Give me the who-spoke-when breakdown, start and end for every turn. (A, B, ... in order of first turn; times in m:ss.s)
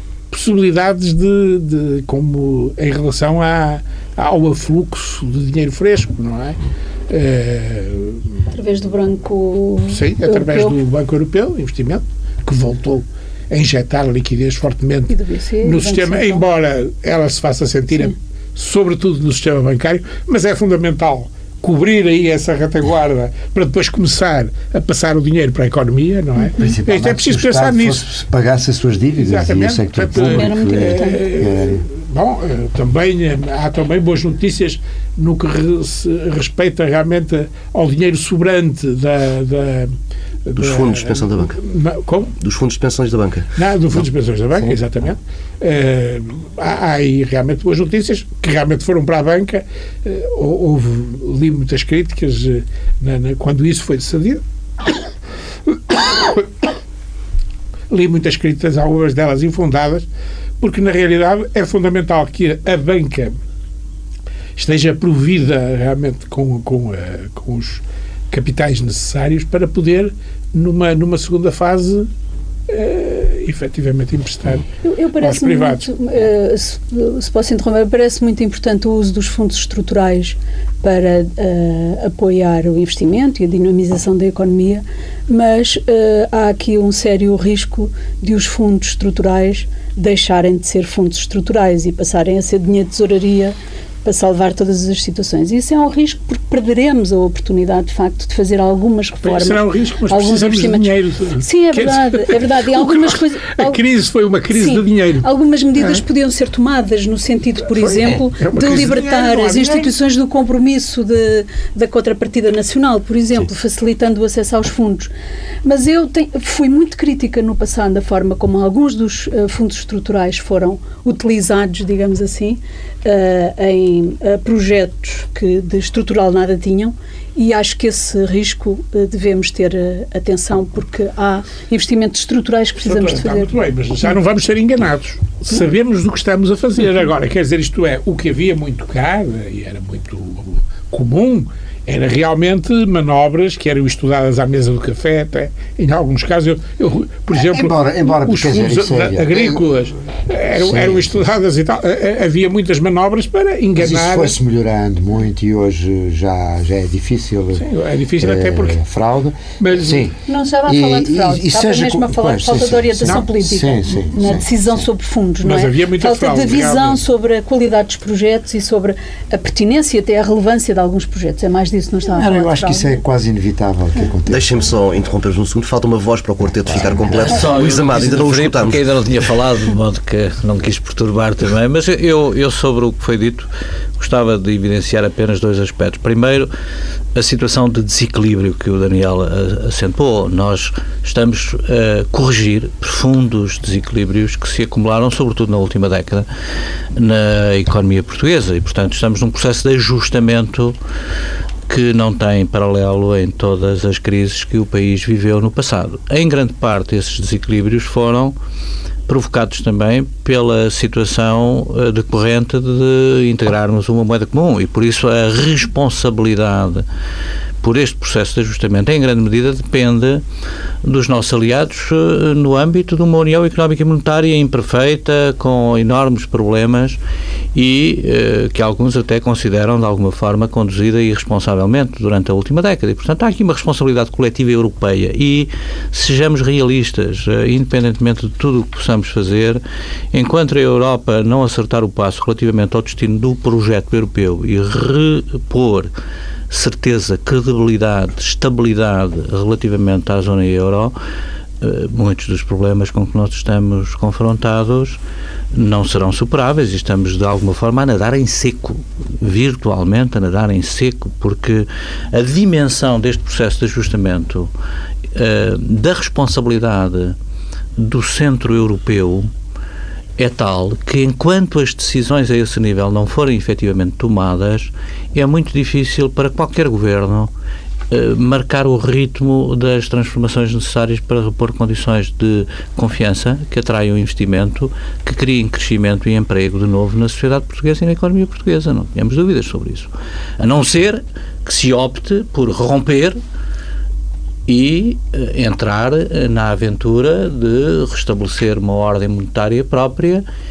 0:00.3-0:08.2 A
0:08.5-0:10.8 B
0:09.9-0:28.0 A
0:15.1-0:16.4 B
0:26.6-0:31.8 C
0:29.2-0:39.9 A
0:30.2-0:31.2 B
0:40.4-0:42.3 A
0:40.6-0:41.6 D
0:42.4-0:43.5 D
0:43.5-0:55.1 A
0:55.7-0:56.7 A
0:57.9-1:00.1 A
1:00.6-1:03.4 A
1:04.6-1:12.1 A
1:12.7-1:14.7 A
1:14.8-1:43.8 B
1:15.2-1:15.9 A
1:39.2-1:45.3 A
1:44.5-1:55.1 B
1:47.7-1:49.9 A
1:55.6-2:13.5 B
2:12.8-2:34.3 A
2:27.3-2:29.6 C
2:30.6-2:31.2 C
2:33.8-2:37.6 C
2:37.6-2:38.8 A
2:38.2-2:40.1 C
2:39.6-2:40.1 A
2:40.2-2:53.0 B
2:40.6-2:44.8 C
2:45.4-2:47.0 A
2:52.2-2:54.5 C
2:54.3-2:58.8 D
2:56.7-2:57.2 C
2:57.1-3:06.5 E
3:07.1-3:16.3 E
3:16.9-3:20.8 E
3:21.7-3:28.3 E
3:29.1-3:36.8 E
3:37.6-3:40.2 E
3:40.8-3:47.0 E
3:47.5-3:59.6 E
4:00.1-4:05.9 E
4:06.5-4:11.0 E
4:11.6-4:15.0 E
4:15.5-4:24.5 E
4:25.1-4:27.2 E
4:27.8-4:29.3 E
4:30.2-4:37.3 E
4:37.9-4:53.2 E
4:54.5-5:00.2 E